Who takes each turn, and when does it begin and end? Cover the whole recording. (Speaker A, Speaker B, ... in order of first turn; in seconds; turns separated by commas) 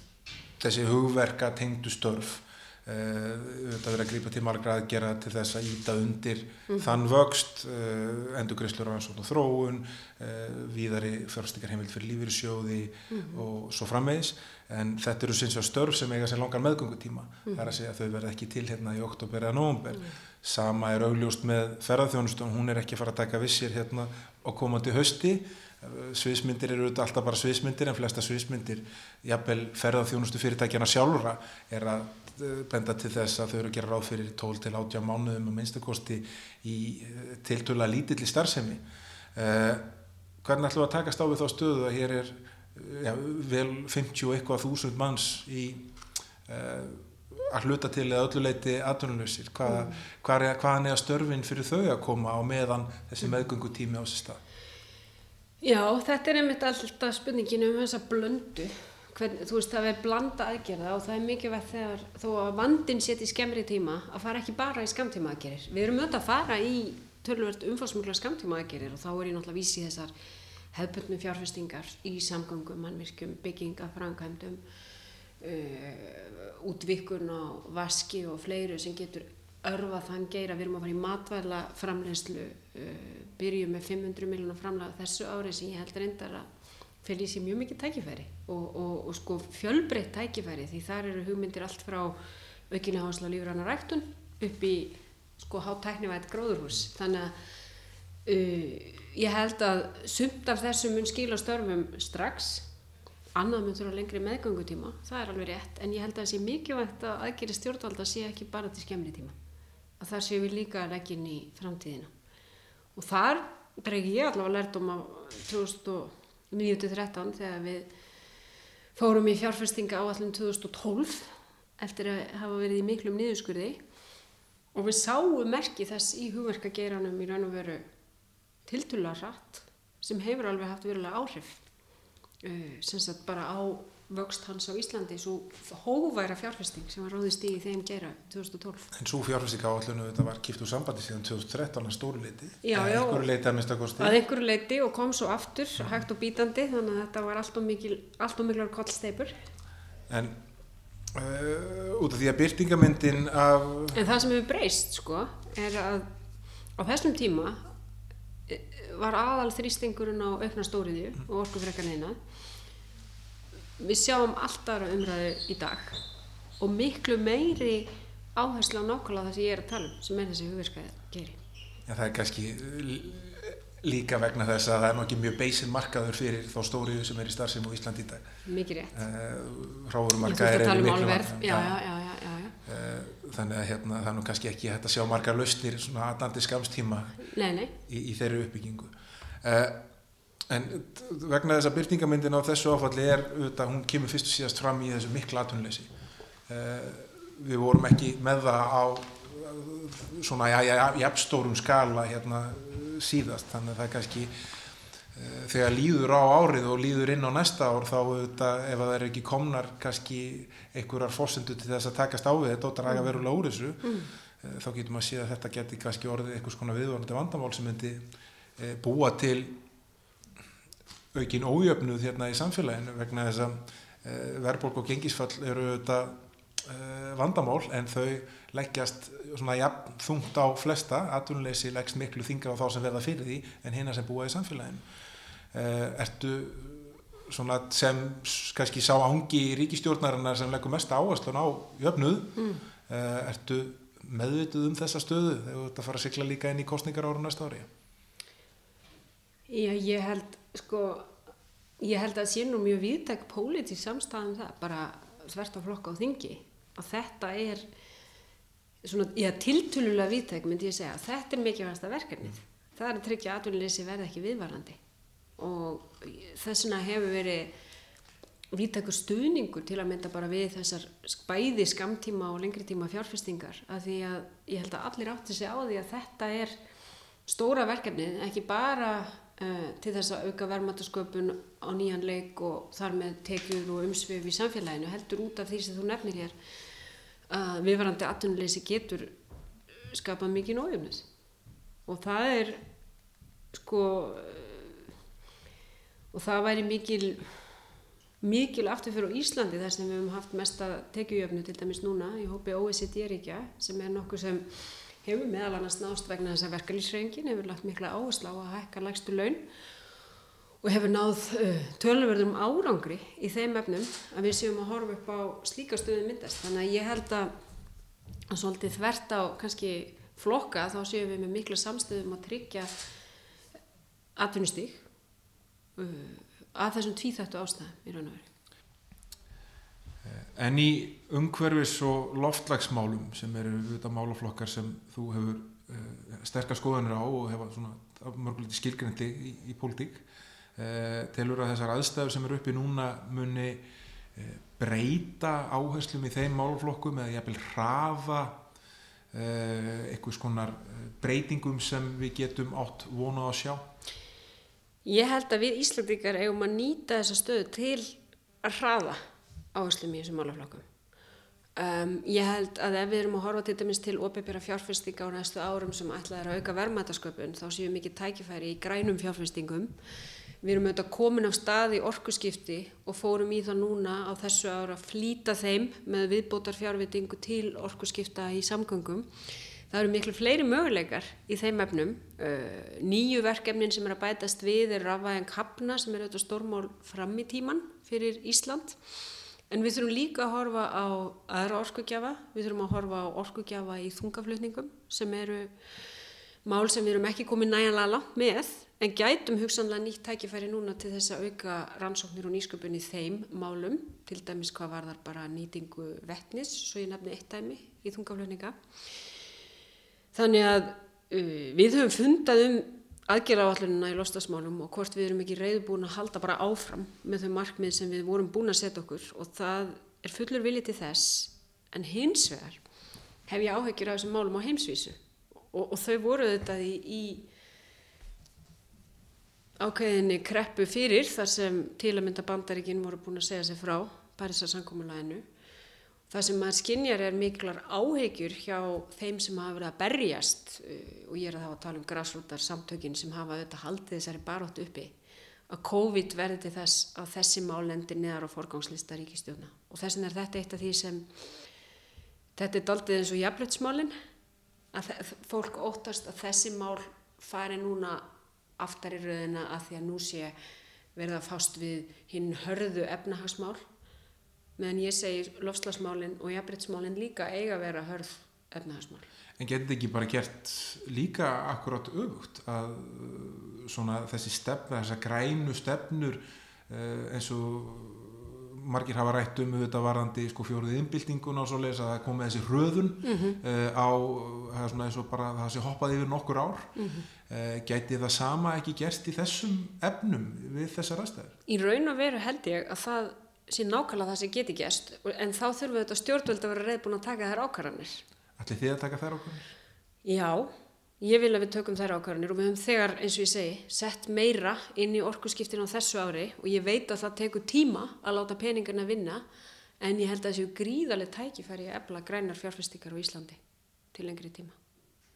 Speaker A: 0.6-38.8, Speaker B: 13.1-13.4, Speaker A: 39.4-39.9, Speaker A: 40.4-45.9, Speaker A: 46.5-54.4, Speaker B: 49.7-50.0, Speaker B: 55.6-70.1, Speaker B: 70.7-74.6, Speaker B: 75.4-86.5, Speaker B: 87.0-92.2, Speaker B: 92.7-97.3, Speaker B: 98.3-102.7, Speaker B: 103.3-109.3, Speaker B: 110.0-112.1, Speaker B: 113.0-117.9, Speaker B: 119.0-123.8, Speaker B: 124.7-127.9, Speaker B: 128.7-131.6, Speaker B: 132.4-138.9, Speaker A: 138.9-144.2, Speaker B: 142.6-143.3, Speaker B: 144.0-149.3, Speaker A: 150.1-150.4, Speaker A: 151.1-154.0, Speaker B: 153.9-156.1, Speaker B: 156.8-157.7, Speaker B: 158.5-162.2, Speaker B: 163.8-166.0, Speaker B: 166.6-171.4, Speaker A: 171.9-178.3, Speaker B: 178.5-179.0, Speaker A: 178.9-181.8, Speaker B: 180.2-182.6, Speaker A: 182.7-187.2, Speaker B: 187.2-187.7, Speaker A: 187.8-189.8, Speaker A: 190.5-195.9, Speaker A: 196.5-204.3, Speaker A: 205.1-218.1, Speaker A: 218.6-219.6, Speaker A: 221.1-234.8, Speaker A: 235.5-242.3, Speaker A: 242.9-247.7, Speaker B: 249.5-251.2, Speaker B: 251.8-257.7, Speaker B: 258.8-264.8, Speaker B: 265.4-267.5, Speaker B: 268.5-276.6, Speaker B: 277.3-286.4, Speaker B: 287.3-289.1, Speaker B: 289.8-291.1, Speaker B: 291.9-292.6, Speaker B: 293.5-294.8, Speaker B: 296.1-297.3, Speaker B: 298.2-309.5, Speaker B: 310.6-317.3, Speaker B: 318.3-322.7, Speaker B: 324.2-324.9, Speaker B: 325.8-328.3, Speaker A: 330.0-340.0, Speaker A: 340.6-348.4, Speaker A: 349.1-353.7, Speaker B: 354.9-359.0, Speaker B: 359.5-360.7, Speaker B: 361.6-369.7, Speaker B: 370.4-379.1, Speaker B: 379.7-388.8, Speaker B: 389.5-395.5, Speaker B: 396.4-408.6, Speaker B: 410.1-422.6, Speaker B: 423.3-425.0, Speaker B: 425.5-427.3, Speaker B: 429.6-435.2, Speaker B: 436.1-444.9, Speaker B: 445.5-451.1, Speaker B: 452.4-453.9, Speaker B: 454.7-458.1, Speaker B: 458.6-460.3, Speaker B: 460.9-463.6, Speaker B: 464.6-469.1, Speaker A: 469.4-486.7, Speaker B: 483.0-483.4, Speaker B: 486.8-487.1, Speaker A: 487.3-491.4, Speaker B: 491.5-498.0, Speaker A: 498.4-499.5, Speaker B: 500.1-509.2, Speaker B: 509.8-513.4, Speaker B: 513.9-514.6